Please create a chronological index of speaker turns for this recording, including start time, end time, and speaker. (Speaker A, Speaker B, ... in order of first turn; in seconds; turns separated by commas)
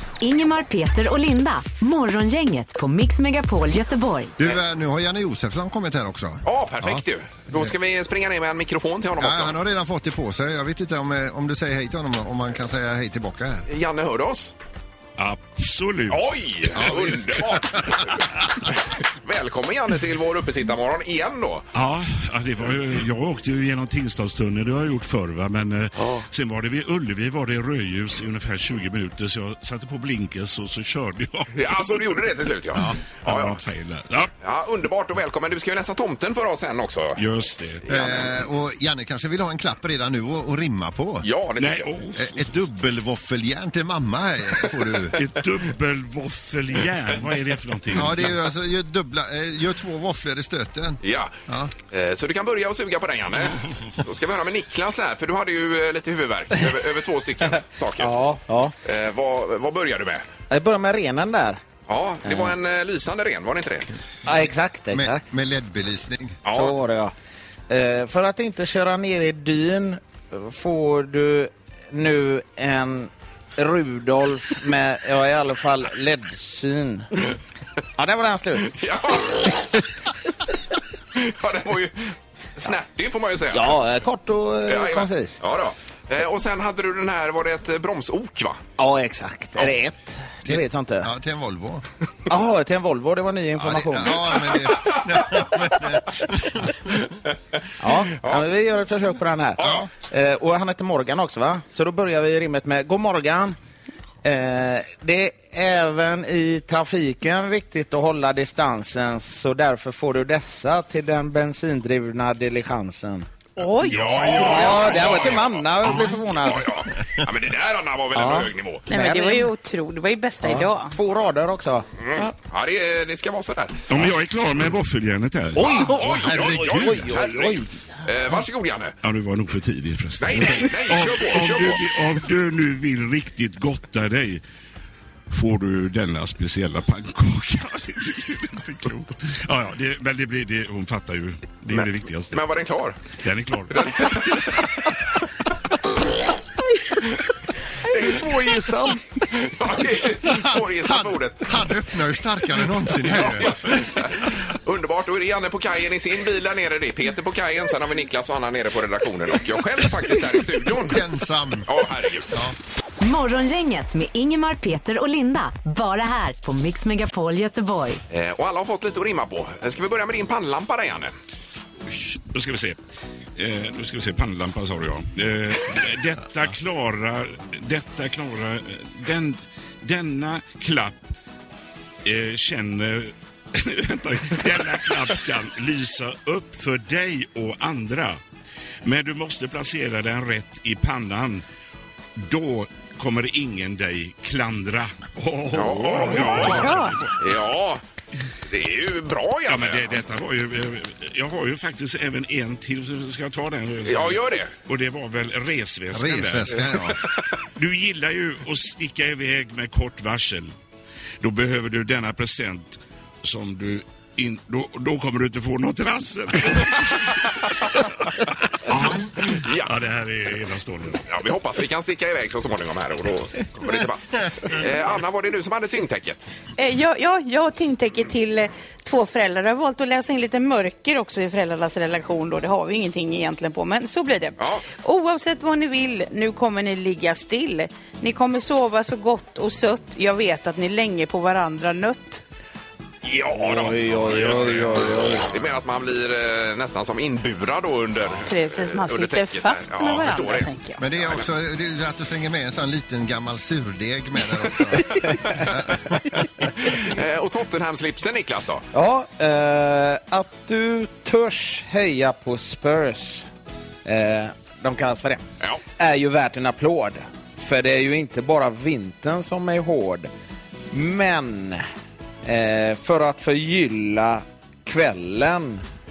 Speaker A: 0.2-4.3, Speaker B: 4.4-7.7, Speaker C: 6.4-9.5, Speaker B: 9.2-13.6, Speaker C: 13.7-14.5, Speaker D: 15.2-16.8, Speaker C: 16.1-21.7, Speaker B: 16.7-18.0, Speaker D: 21.7-32.2, Speaker C: 31.5-33.6, Speaker D: 32.8-34.3, Speaker C: 34.4-37.2, Speaker D: 37.2-37.8, Speaker C: 37.8-38.2, Speaker B: 37.9-41.2, Speaker C: 41.2-41.9, Speaker D: 41.6-42.4, Speaker B: 42.1-45.1, Speaker D: 45.1-48.3, Speaker B: 47.9-51.7, Speaker C: 51.0-51.3, Speaker C: 51.9-58.1, Speaker E: 58.0-58.7, Speaker C: 58.8-60.3, Speaker E: 60.5-61.6, Speaker C: 61.9-63.9, Speaker E: 62.2-62.5, Speaker E: 64.2-65.2, Speaker B: 64.9-66.4, Speaker C: 66.4-66.8, Speaker E: 66.5-67.1, Speaker E: 67.7-77.1, Speaker E: 78.0-78.8, Speaker C: 78.7-79.6, Speaker C: 81.2-83.8, Speaker E: 83.5-85.4, Speaker C: 84.7-88.6, Speaker E: 88.8-91.1, Speaker B: 90.5-91.8, Speaker E: 92.3-94.2, Speaker B: 93.6-96.8, Speaker C: 94.9-95.2, Speaker E: 97.8-103.5, Speaker C: 98.1-98.4, Speaker C: 99.6-99.8, Speaker B: 99.6-99.9, Speaker E: 104.2-113.3, Speaker F: 113.6-114.3, Speaker C: 113.8-115.6, Speaker B: 114.0-114.6, Speaker E: 114.2-116.7, Speaker C: 116.4-118.8, Speaker E: 118.1-119.5, Speaker F: 118.9-120.9, Speaker E: 120.4-121.8, Speaker C: 122.0-124.0, Speaker D: 123.9-125.8, Speaker E: 125.6-127.7, Speaker B: 125.7-127.1, Speaker C: 125.8-128.9, Speaker D: 129.0-134.4, Speaker C: 130.2-131.8, Speaker D: 135.3-142.4, Speaker C: 141.7-143.0, Speaker D: 143.2-144.6, Speaker C: 143.7-144.5, Speaker E: 147.8-149.0, Speaker C: 149.3-151.6, Speaker B: 150.8-153.5, Speaker C: 153.0-161.0, Speaker B: 160.8-162.5, Speaker C: 161.7-162.3, Speaker A: 163.0-168.0, Speaker C: 168.1-171.1, Speaker D: 171.8-172.8, Speaker D: 173.3-181.0, Speaker D: 182.0-188.2, Speaker D: 188.8-191.4, Speaker D: 192.2-197.1, Speaker C: 195.5-197.8, Speaker F: 196.4-196.9, Speaker C: 198.5-200.0, Speaker D: 199.5-206.8, Speaker C: 203.8-204.5, Speaker B: 205.9-207.0, Speaker D: 207.6-210.5, Speaker D: 211.2-218.1, Speaker D: 218.7-221.0, Speaker C: 219.3-219.7, Speaker C: 221.1-226.3, Speaker F: 226.6-242.2, Speaker C: 234.4-234.6, Speaker C: 243.0-251.2, Speaker E: 243.3-245.3, Speaker F: 248.3-250.8, Speaker B: 250.8-254.8, Speaker B: 255.5-255.8, Speaker C: 256.7-258.6, Speaker E: 258.7-263.3, Speaker E: 263.8-265.2, Speaker E: 265.8-270.1, Speaker E: 270.7-271.6, Speaker E: 272.2-275.6